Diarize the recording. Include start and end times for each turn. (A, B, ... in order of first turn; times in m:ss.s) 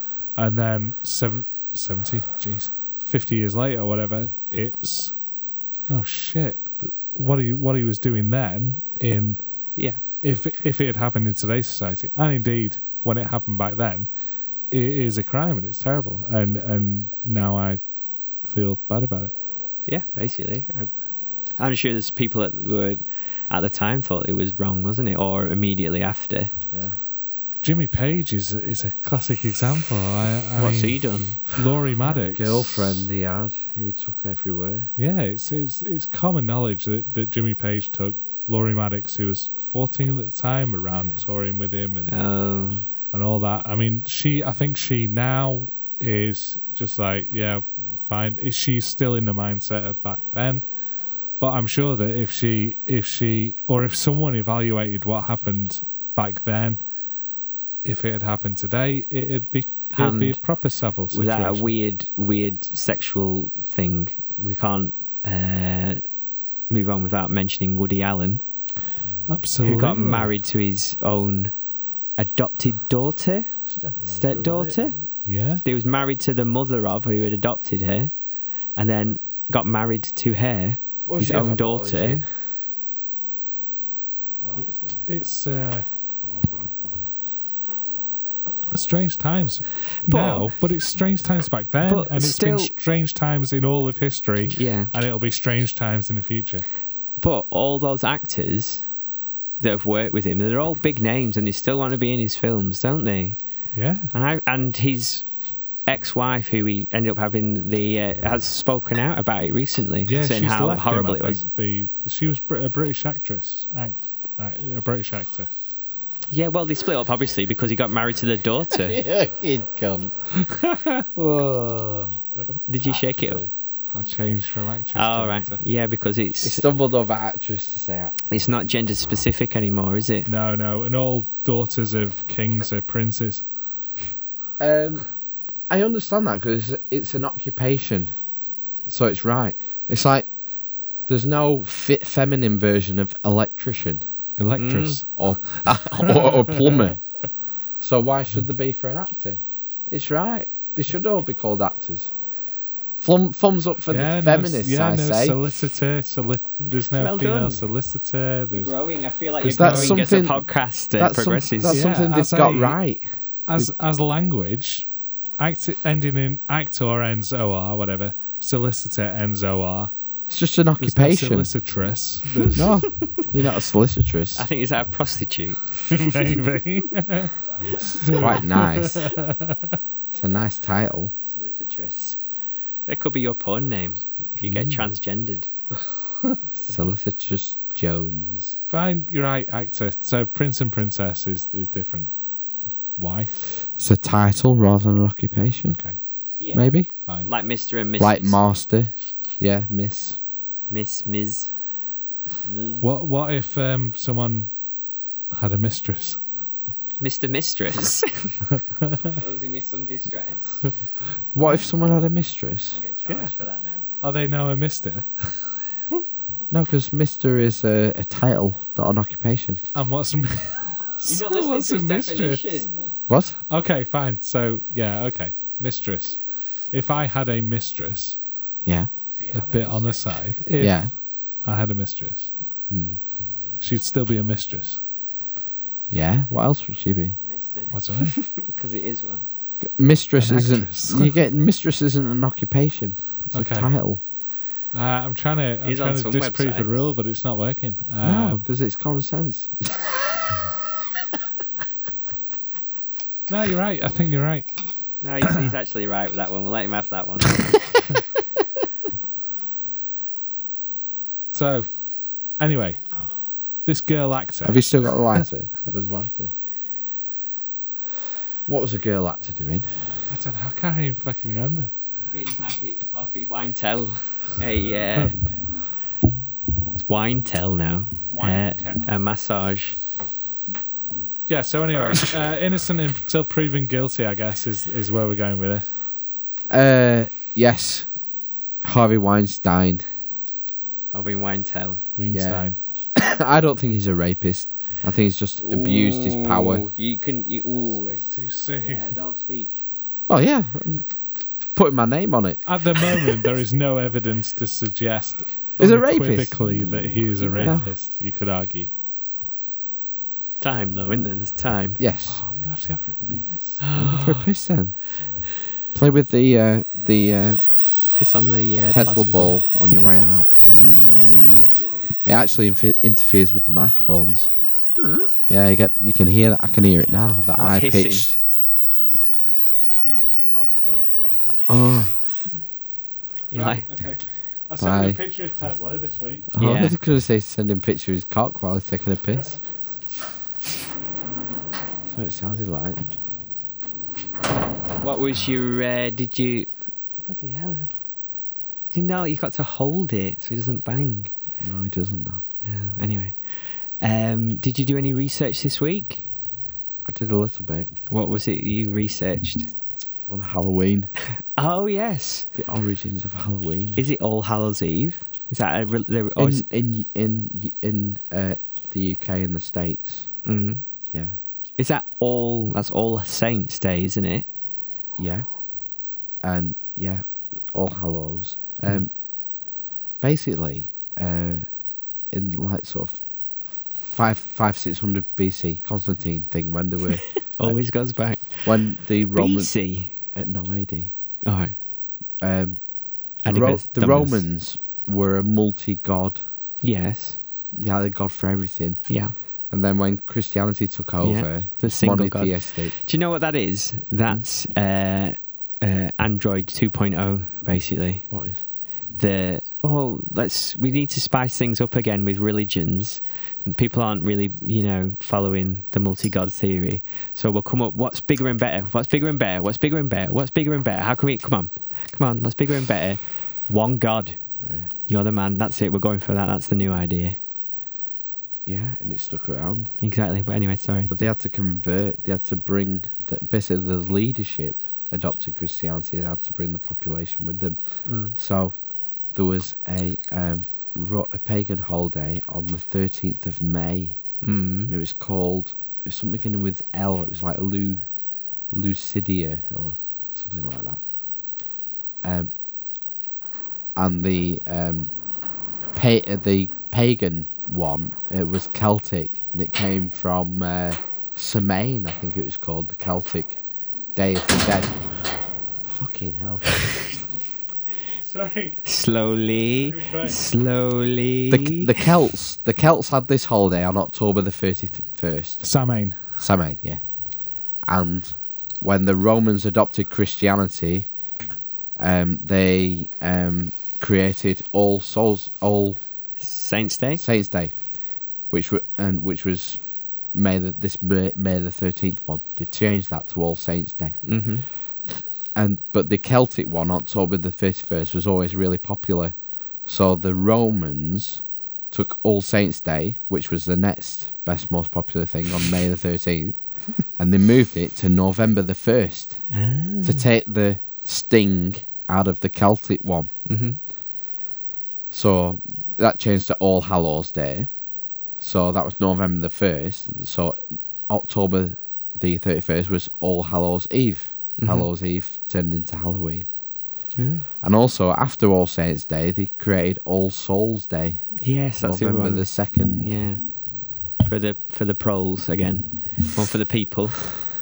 0:00.4-0:05.1 A
0:05.9-0:09.4 A
0:09.8-0:10.0 B
0:10.2-0:14.1 A
0:14.7-0:17.8 A
0:18.4-0:19.3 A
0:19.9-0:20.9 B
0:21.6-0:26.5 B
0:27.6-0:32.8 A
0:30.6-0:31.6 B
0:32.0-0:34.9 C
0:35.0-0:42.2 A
0:40.9-0:41.2 C
0:42.0-0:42.9 B
0:43.1-0:50.6 A
0:51.4-0:56.8 A
0:57.8-1:01.7 A
1:00.0-1:00.4 B
1:01.1-1:06.0 B
1:06.7-1:08.4 B
1:09.3-1:10.3 A
1:09.6-1:11.5 B
1:12.2-1:15.0 B
1:13.7-1:15.0 C
1:15.3-1:15.6 A
1:15.6-1:18.1 B
1:18.8-1:22.2 B
1:21.0-1:22.3 C
1:24.4-1:25.0 C
1:25.1-1:25.9 A
1:28.7-1:36.7 A
1:30.0-1:30.5 B
1:31.8-1:32.7 B
1:34.5-1:34.9 B
1:37.2-1:38.8 B
1:39.6-1:43.4 B
1:43.7-1:44.1 A
1:44.1-1:45.3 B
1:45.9-1:51.4 B
1:50.0-1:55.5 A
1:56.3-1:59.0 B
1:58.7-2:00.4 C
2:00.5-2:00.9 A
2:01.0-2:02.2 C
2:02.7-2:03.4 B
2:02.8-2:03.5 C
2:03.9-2:05.6 A
2:04.9-2:06.6 B
2:06.4-2:08.5 C
2:08.3-2:10.3 B
2:10.3-2:13.4 A
2:14.6-2:15.0 C
2:15.7-2:18.1 C
2:18.9-2:20.3 C
2:21.1-2:24.0 C
2:24.4-2:26.9 A
2:24.6-2:25.0 B
2:25.2-2:27.0 C
2:27.8-2:32.1 C
2:33.0-2:35.4 C
2:33.9-2:38.7 A
2:37.0-2:37.6 B
2:38.5-2:41.8 B
2:39.4-2:40.1 A
2:39.4-2:40.4 C
2:41.0-2:43.7 C
2:41.7-2:42.8 A
2:43.5-2:44.9 A
2:45.4-2:49.9 A
2:50.3-2:51.5 C
2:50.8-2:52.7 A
2:52.6-2:54.5 C
2:54.4-2:56.2 B
2:55.9-2:57.4 A
2:57.7-2:59.1 C
2:57.9-2:59.8 A
3:00.1-3:01.1 C
3:01.2-3:02.2 B
3:02.9-3:05.5 B
3:04.4-3:04.8 C
3:06.5-3:08.6 C
3:08.7-3:12.1 A
3:13.0-3:13.4 A
3:13.8-3:15.8 C
3:15.7-3:16.0 A
3:16.4-3:16.7 B
3:16.5-3:16.9 C
3:17.2-3:18.4 B
3:18.0-3:20.2 C
3:20.7-3:21.5 B
3:22.4-3:22.9 B
3:22.8-3:24.5 A
3:25.3-3:26.2 A
3:27.0-3:28.4 B
3:29.0-3:30.6 B
3:31.3-3:32.8 C
3:32.7-3:33.9 B
3:34.0-3:36.0 A
3:36.5-3:39.6 C
3:39.7-3:42.7 A
3:41.0-3:42.9 B
3:43.1-3:43.4 C
3:43.5-3:46.2 A
3:46.7-3:48.2 A
3:49.1-3:50.1 B
3:49.3-3:52.3 A
3:50.6-3:50.9 C
3:52.7-3:53.0 C
3:53.6-3:54.8 A
3:55.9-3:57.2 C
3:57.2-3:59.3 B
3:57.7-3:58.2 A
3:59.6-4:04.0 C
4:00.2-4:01.2 A
4:03.3-4:03.7 A
4:04.7-4:08.4 A
4:05.6-4:06.9 B
4:08.0-4:10.4 C
4:13.3-4:14.5 A
4:15.0-4:17.9 B
4:21.3-4:21.7 A
4:22.4-4:22.8 A
4:23.7-4:25.3 A
4:24.4-4:26.3 C
4:28.4-4:29.9 C
4:30.1-4:31.7 A
4:32.0-4:35.2 B
4:36.8-4:39.8 B
4:38.1-4:38.9 A
4:41.3-4:45.7 A
4:46.5-4:47.9 C
4:48.6-4:49.8 C
4:50.9-4:51.8 B
4:52.0-4:52.6 A
4:52.1-4:56.6 C
4:55.4-4:59.6 B
4:57.7-4:58.9 A
5:00.1-5:00.9 C
5:01.6-5:03.1 C
5:02.4-5:08.7 A
5:05.6-5:07.7 C
5:07.2-5:07.6 B
5:10.4-5:11.8 B
5:11.8-5:12.2 C
5:12.1-5:13.6 A
5:13.6-5:14.3 B
5:13.8-5:14.8 C
5:14.9-5:15.3 A
5:15.7-5:17.4 C
5:18.0-5:19.4 B
5:18.7-5:21.5 C
5:22.0-5:24.3 C
5:24.8-5:25.1 B
5:25.3-5:28.2 C
5:27.3-5:28.1 B
5:28.8-5:31.9 A
5:31.5-5:32.0 C
5:33.3-5:33.7 B
5:33.3-5:36.3 A
5:34.6-5:35.0 C
5:36.3-5:39.4 C
5:36.4-5:36.8 B
5:41.9-5:42.8 C
5:44.8-5:46.5 B
5:47.0-5:47.7 B
5:48.7-5:51.1 B
5:51.4-5:52.2 C
5:52.4-5:56.1 B
5:56.8-5:57.7 C
5:57.9-5:59.5 B
6:00.1-6:00.9 C
6:01.2-6:02.3 B
6:02.4-6:03.8 C
6:03.8-6:06.5 B
6:06.2-6:10.1 C
6:10.2-6:10.6 B
6:11.6-6:14.3 B
6:15.0-6:15.3 C
6:16.2-6:18.9 C
6:20.0-6:21.4 C
6:22.1-6:23.0 C
6:23.9-6:27.6 C
6:27.4-6:29.9 B
6:28.4-6:29.5 C
6:30.1-6:30.9 C
6:31.2-6:31.5 B
6:32.2-6:32.6 C
6:33.2-6:34.2 B
6:33.3-6:36.2 C
6:36.6-6:37.2 B
6:37.5-6:38.9 C
6:38.9-6:39.1 B
6:39.5-6:42.7 C
6:41.0-6:48.0 B
6:48.1-6:48.4 C
6:48.9-7:04.2 B
7:04.4-7:04.7 C
7:04.9-7:07.2 B
7:08.4-7:09.7 C
7:09.8-7:10.9 B
7:10.9-7:18.6 C
7:17.9-7:18.1 B
7:19.1-7:24.0 C
7:24.2-7:24.7 B
7:24.7-7:27.9 C
7:28.5-7:30.8 C
7:32.0-7:32.3 C
7:33.8-7:34.9 C
7:35.7-7:43.4 C
7:44.0-7:44.7 C
7:45.7-7:46.6 C
7:48.0-7:48.6 A
7:48.6-7:51.9 B
7:49.6-7:50.2 A
7:51.3-7:55.4 C
7:55.4-7:56.0 A
7:56.2-7:56.8 C
7:57.6-8:00.9 C
8:01.8-8:05.8 C
8:06.2-8:07.0 B
8:07.0-8:07.6 C
8:08.3-8:09.6 C
8:10.1-8:14.0 C
8:14.0-8:14.4 B
8:15.4-8:26.4 C
8:27.0-8:29.2 C
8:29.3-8:30.1 B
8:29.8-8:33.1 C
8:33.3-8:33.6 B
8:34.9-8:37.5 C
8:38.2-8:46.3 C
8:44.4-8:44.7 B
8:47.0-8:47.3 B
8:47.4-8:52.9 C
8:51.2-8:53.2 B
8:54.0-8:57.0 B